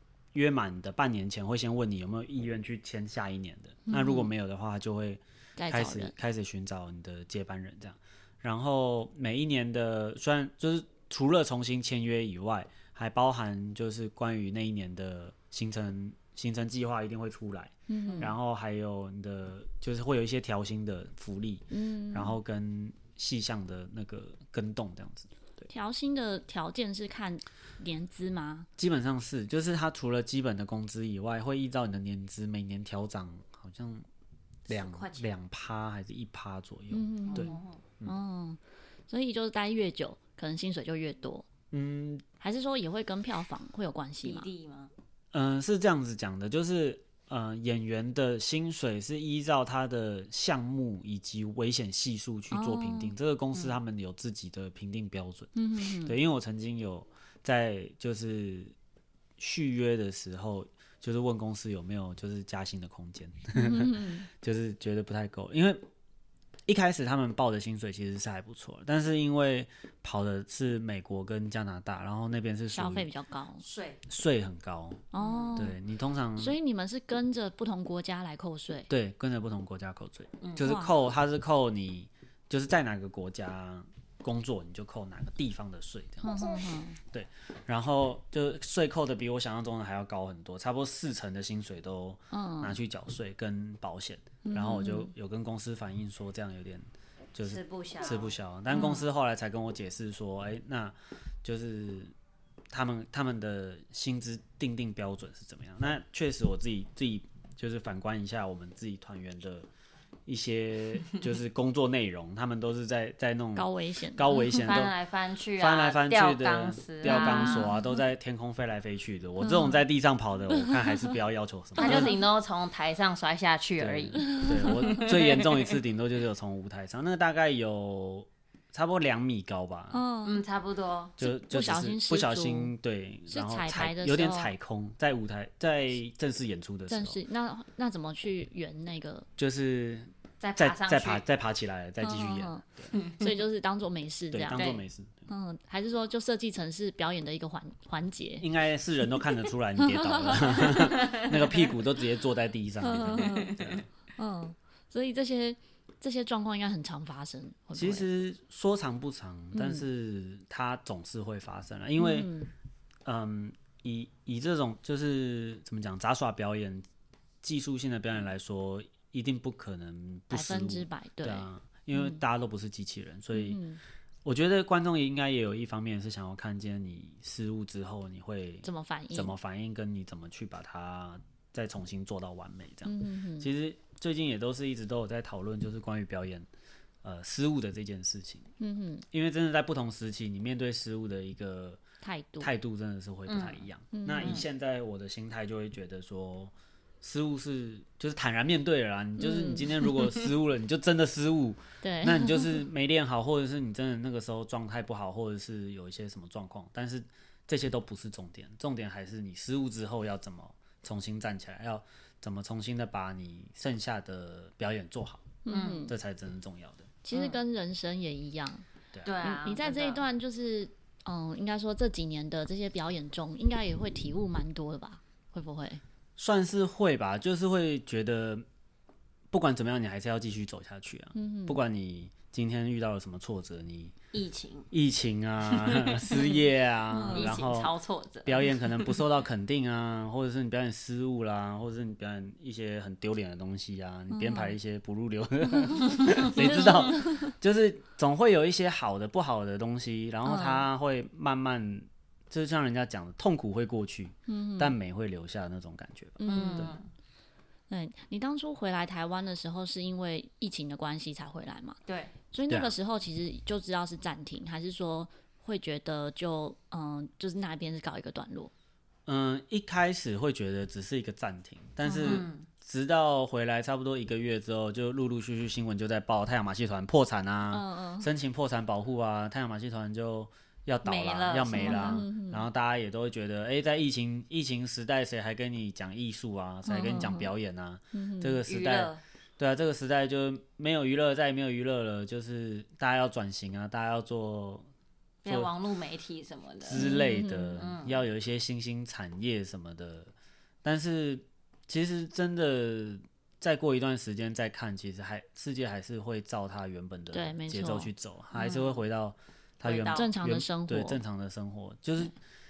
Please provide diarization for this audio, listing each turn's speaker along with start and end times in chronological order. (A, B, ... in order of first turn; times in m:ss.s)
0:00.3-0:25.7 A
0:03.9-0:04.3 B
0:05.6-0:06.1 B
0:17.9-0:18.3 B
0:21.7-0:22.4 B
0:25.7-0:28.7 B
0:28.8-0:34.0 A
0:34.7-0:35.3 C
0:34.7-0:38.1 A
0:36.9-0:41.5 B
0:37.3-0:37.8 C
0:41.7-0:42.2 A
0:42.4-0:44.5 B
0:44.2-0:44.9 C
0:45.3-0:58.7 A
0:52.5-0:53.1 B
0:55.6-0:56.2 B
0:59.4-1:05.8 A
1:03.6-1:04.3 B
1:06.7-1:13.1 A
1:12.7-1:13.6 B
1:13.6-1:14.0 C
1:14.1-1:16.6 A
1:15.1-1:15.8 B
1:15.2-1:15.7 C
1:16.4-1:18.9 B
1:18.9-1:26.3 A
1:20.4-1:20.7 C
1:20.6-1:21.0 B
1:26.2-1:27.0 B
1:27.1-1:42.1 A
1:32.3-1:32.8 B
1:34.4-1:35.1 B
1:37.4-1:38.3 C
1:38.7-1:39.1 B
1:42.7-1:49.7 A
1:50.3-1:54.9 A
1:53.6-1:54.6 B
1:54.6-1:57.7 C
1:55.6-2:02.1 A
1:57.0-1:58.0 B
1:59.4-1:59.8 B
2:00.6-2:01.0 B
2:01.8-2:05.8 C
2:01.8-2:02.1 B
2:03.8-2:10.0 A
2:04.2-2:05.0 B
2:09.9-2:10.4 B
2:10.2-2:11.2 C
2:11.2-2:17.2 A
2:11.2-2:12.7 B
2:13.3-2:14.5 B
2:16.9-2:19.3 B
2:19.4-2:23.0 A
2:20.4-2:21.2 C
2:22.0-2:24.7 B
2:23.0-2:23.3 C
2:24.3-2:25.3 A
2:24.5-2:24.8 C
2:25.3-2:28.5 B
2:28.4-2:33.9 A
2:29.8-2:31.0 B
2:30.9-2:31.4 C
2:32.8-2:33.6 B
2:33.2-2:33.8 C
2:34.2-2:38.1 B
2:37.7-2:42.3 A
2:39.5-2:39.8 B
2:42.0-2:42.5 B
2:43.0-2:46.9 A
2:47.4-2:53.6 A
2:50.3-2:52.2 B
2:53.3-2:53.8 B
2:54.2-3:06.5 A
2:58.6-2:59.3 B
3:02.8-3:03.5 B
3:07.0-3:08.5 A
3:08.6-3:09.0 B
3:09.1-3:11.8 A
3:12.0-3:12.5 B
3:12.4-3:36.9 A
3:13.3-3:13.6 C
3:13.9-3:14.4 B
3:19.2-3:19.9 B
3:21.8-3:22.6 B
3:35.4-3:35.9 B
3:35.5-3:35.9 C
3:37.0-3:38.6 B
3:37.1-3:37.4 C
3:39.0-3:40.1 C
3:39.2-3:45.8 B
3:46.2-3:48.4 A
3:49.3-3:54.0 A
3:51.2-3:51.6 B
3:54.1-3:54.7 C
3:54.7-3:57.7 A
3:55.5-3:56.4 C
3:56.9-3:57.3 B
3:57.1-3:59.0 C
3:58.2-4:16.7 A
4:04.1-4:04.5 B
4:05.7-4:07.3 B
4:10.2-4:10.7 B
4:14.3-4:14.8 B
4:16.2-4:16.8 B
4:16.3-4:16.8 C
4:17.7-4:21.8 B
4:21.9-4:22.1 C
4:22.3-4:28.5 B
4:22.5-4:22.8 A
4:29.1-4:54.7 A
4:31.8-4:32.2 B
4:32.0-4:32.5 C
4:37.5-4:38.1 B
4:40.8-4:42.0 C
4:41.5-4:42.4 B
4:46.7-4:47.3 B
4:47.9-4:48.4 B
4:48.5-4:49.0 C
4:55.2-4:56.9 C
4:56.6-5:00.1 A
4:56.7-4:57.6 B
4:57.6-4:58.0 C
5:00.6-5:12.1 A
5:07.1-5:07.9 B
5:08.3-5:08.8 C
5:09.6-5:10.1 C
5:09.9-5:11.0 B